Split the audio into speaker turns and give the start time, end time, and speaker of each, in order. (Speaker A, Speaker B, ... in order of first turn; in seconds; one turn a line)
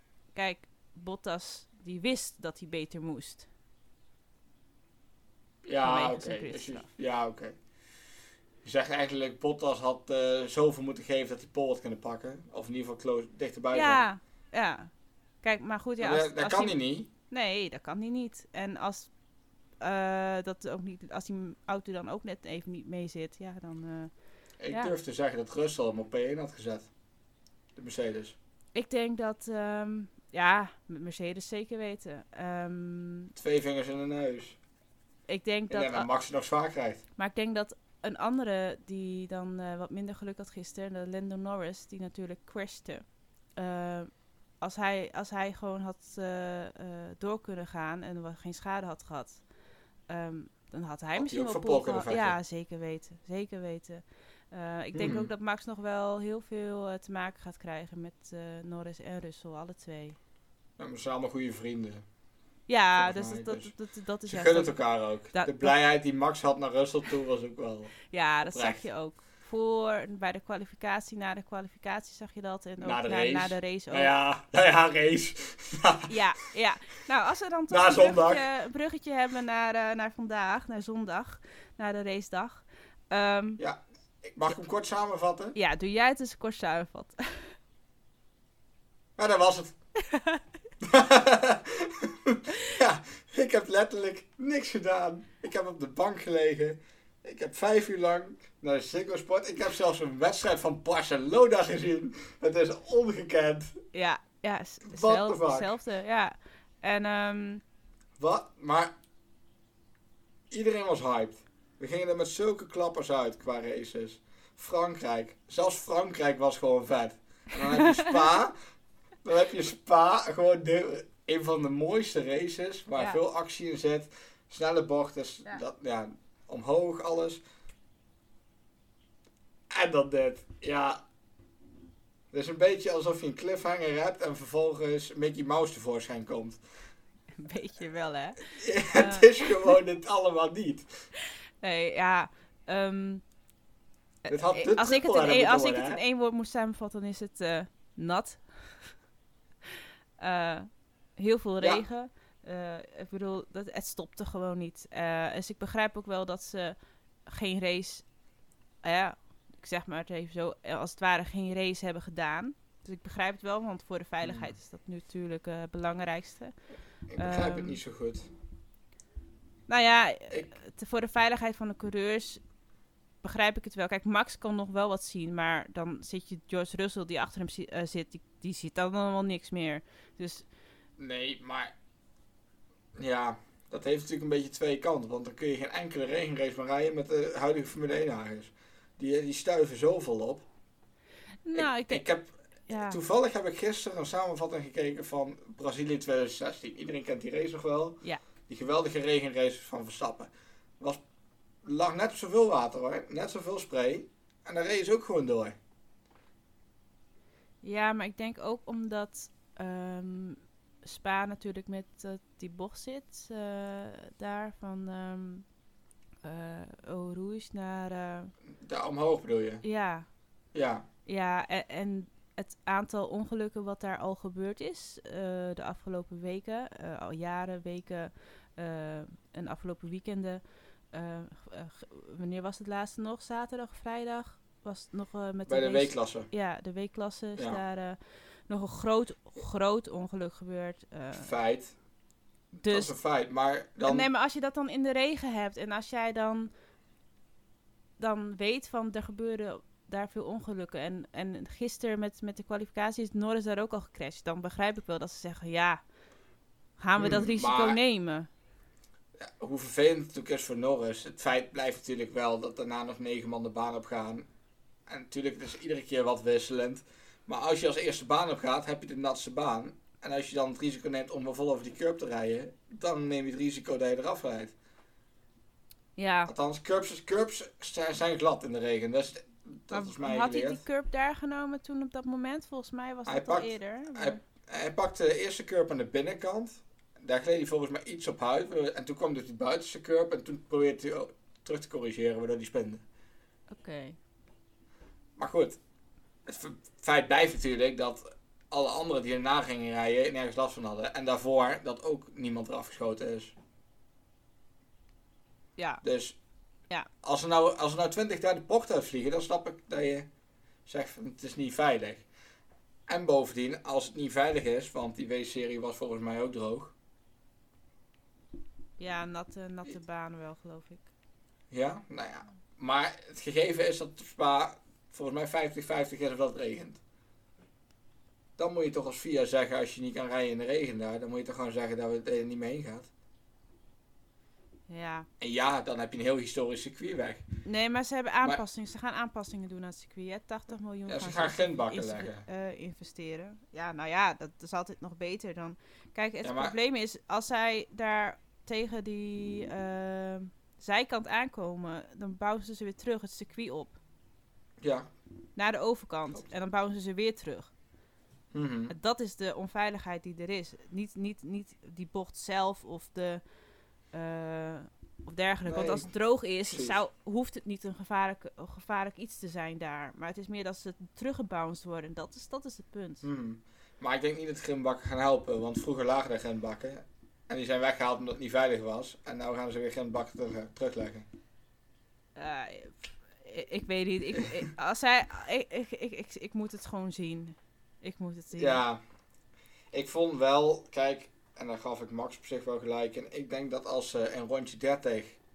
Speaker A: 0.3-3.5
Speaker B: 5.6-7.5
Speaker A: 5.8-6.9
Speaker B: 8.6-14.0
Speaker A: 13.7-14.9
Speaker A: 15.4-16.8
Speaker B: 16.0-17.1
Speaker A: 17.3-19.1
Speaker A: 19.8-24.1
Speaker B: 24.6-26.9
Speaker A: 24.7-24.9
Speaker B: 27.8-28.4
Speaker A: 28.7-33.3
Speaker B: 33.4-34.6
Speaker A: 35.3-36.1
Speaker B: 35.7-37.0
Speaker A: 37.2-43.0
Speaker A: 43.5-44.1
Speaker A: 44.6-49.4
Speaker A: 50.1-60.2
Speaker B: 51.1-52.4
Speaker B: 54.9-55.3
Speaker B: 60.8-62.0
Speaker A: 62.7-64.7
Speaker B: 62.9-63.7
Speaker B: 64.3-68.8
Speaker A: 65.3-65.7
Speaker A: 68.1-74.1
Speaker B: 72.8-76.1
Speaker A: 76.1-83.6
Speaker B: 77.7-78.4
Speaker B: 83.6-85.5
Speaker A: 85.5-87.5
Speaker B: 89.2-89.8
Speaker A: 90.0-90.4
Speaker B: 90.8-103.8
Speaker A: 103.9-107.6
Speaker B: 104.8-105.8
Speaker B: 108.2-108.9
Speaker B: 110.5-118.5
Speaker A: 117.7-118.2
Speaker B: 119.2-127.4
Speaker B: 129.7-131.0
Speaker B: 132.3-136.6
Speaker A: 137.4-139.7
Speaker B: 138.4-141.1
Speaker A: 141.6-143.2
Speaker A: 144.2-148.8
Speaker B: 144.3-146.0
Speaker A: 150.2-158.0
Speaker A: 158.8-166.5
Speaker B: 164.2-164.5
Speaker B: 167.1-168.3
Speaker A: 167.2-167.8
Speaker A: 169.7-172.4
Speaker A: 173.2-180.4
Speaker B: 181.0-181.7
Speaker B: 182.9-190.4
Speaker A: 191.4-192.0
Speaker B: 191.5-201.0
Speaker A: 192.7-193.0
Speaker B: 201.6-205.6
Speaker A: 207.6-215.4
Speaker A: 216.2-218.3
Speaker B: 218.6-219.6
Speaker A: 219.6-220.1
Speaker B: 220.5-220.8
Speaker A: 221.1-241.3
Speaker B: 235.5-236.3
Speaker B: 241.1-241.7
Speaker B: 242.6-244.1
Speaker A: 242.6-242.9
Speaker A: 243.8-246.5
Speaker A: 248.0-255.8
Speaker A: 256.8-258.3
Speaker B: 257.0-257.8
Speaker B: 259.2-264.3
Speaker B: 264.9-274.5
Speaker A: 276.0-276.3
Speaker B: 276.2-280.6
Speaker A: 279.7-284.2
Speaker B: 283.1-292.8
Speaker A: 293.5-294.0
Speaker B: 295.2-295.6
Speaker B: 296.2-303.3
Speaker A: 305.6-305.8
Speaker B: 305.8-306.2
Speaker B: 307.0-310.1
Speaker B: 310.6-312.1
Speaker B: 312.9-316.7
Speaker A: 318.8-320.9
Speaker B: 321.5-326.8
Speaker B: 328.4-332.9
Speaker A: 334.7-335.1
Speaker B: 335.2-337.2
Speaker A: 337.4-353.8
Speaker B: 340.9-342.2
Speaker B: 346.2-346.5
Speaker B: 354.6-354.9
Speaker A: 355.4-357.5
Speaker B: 358.3-358.7
Speaker A: 358.7-363.2
Speaker A: 363.9-373.0
Speaker B: 365.4-365.9
Speaker B: 366.5-366.8
Speaker B: 373.0-381.1
Speaker A: 382.1-388.6
Speaker B: 388.4-388.8
Speaker B: 389.7-395.2